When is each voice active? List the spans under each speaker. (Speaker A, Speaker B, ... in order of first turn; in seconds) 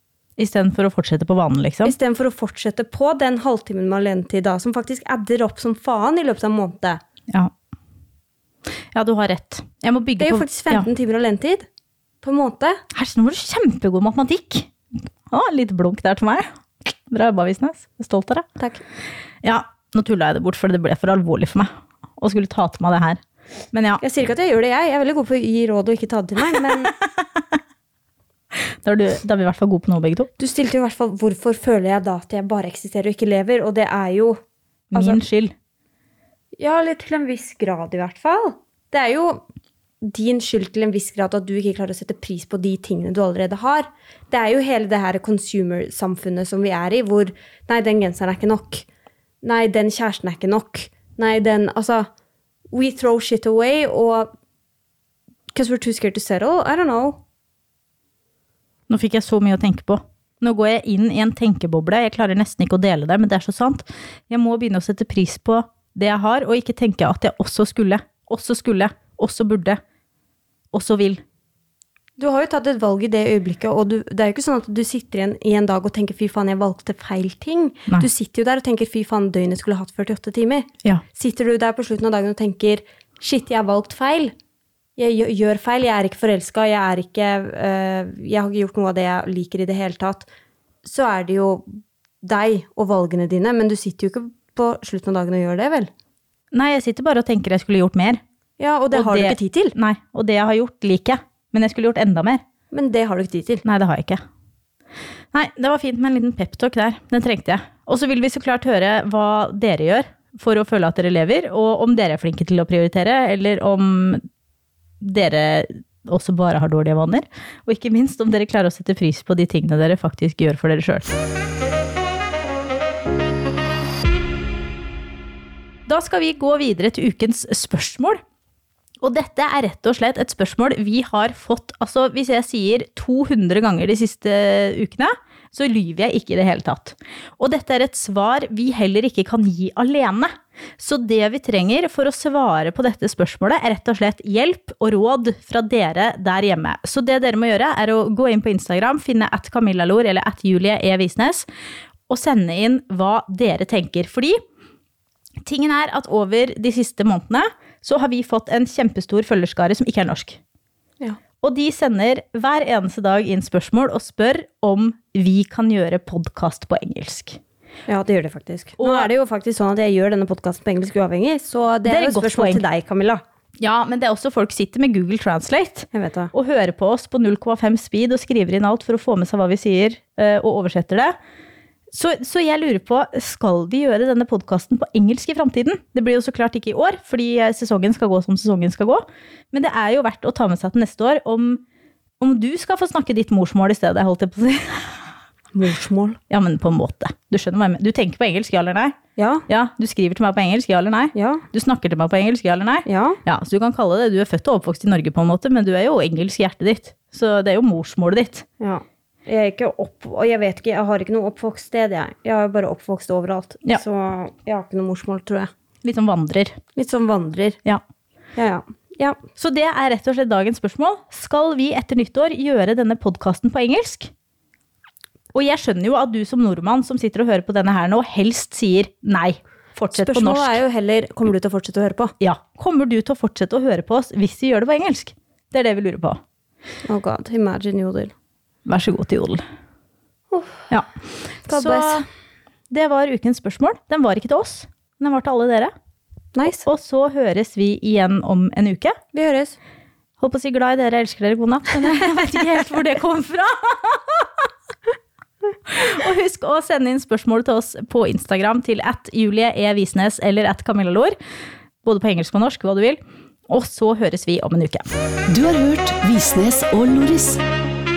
Speaker A: 0.4-1.9, 8.9-10.9, 12.9-18.5, 19.4-23.2, 23.7-24.0, 28.5-30.3, 34.9-35.5, 58.9-69.8, 70.7-71.2, 96.5-98.2, 98.9-102.4, 103.6-104.2, 105.3-114.2, 115.0-121.1, 125.8-128.2, 129.0-151.4, 152.1-154.4, 155.4-160.4, 161.4-167.4, 168.8-169.1, 171.8-172.6, 173.6-181.1, 181.9-191.6, 192.2-195.0, 196.3-198.9, 199.5-208.4, 215.8-216.6, 219.4-224.1, 225.3-230.6, 232.2-236.2, 238.6-239.4, 241.4-242.0, 242.7-245.7, 246.6-249.0, 250.2-254.5, 255.7-261.1, 261.8-264.9
Speaker B: 1.8-7.0, 10.2-11.7, 12.2-12.8, 24.0-26.9, 30.4-34.4, 34.9-35.2, 36.6-39.4, 40.0-48.9, 49.4-52.1, 52.7-54.3, 55.5-57.2, 72.2-84.3, 85.0-90.3, 90.8-95.9, 98.6-99.7, 102.7-103.6, 167.9-173.2, 175.9-176.3, 195.5-196.2, 199.2-199.4, 201.1-201.4, 202.8-203.2, 208.6-215.5, 216.8-217.6, 218.3-219.2, 229.9-232.1, 236.8-238.1, 240.3-240.7, 241.5-242.1, 246.3-246.6, 249.1-249.6
Speaker C: 265.3-267.4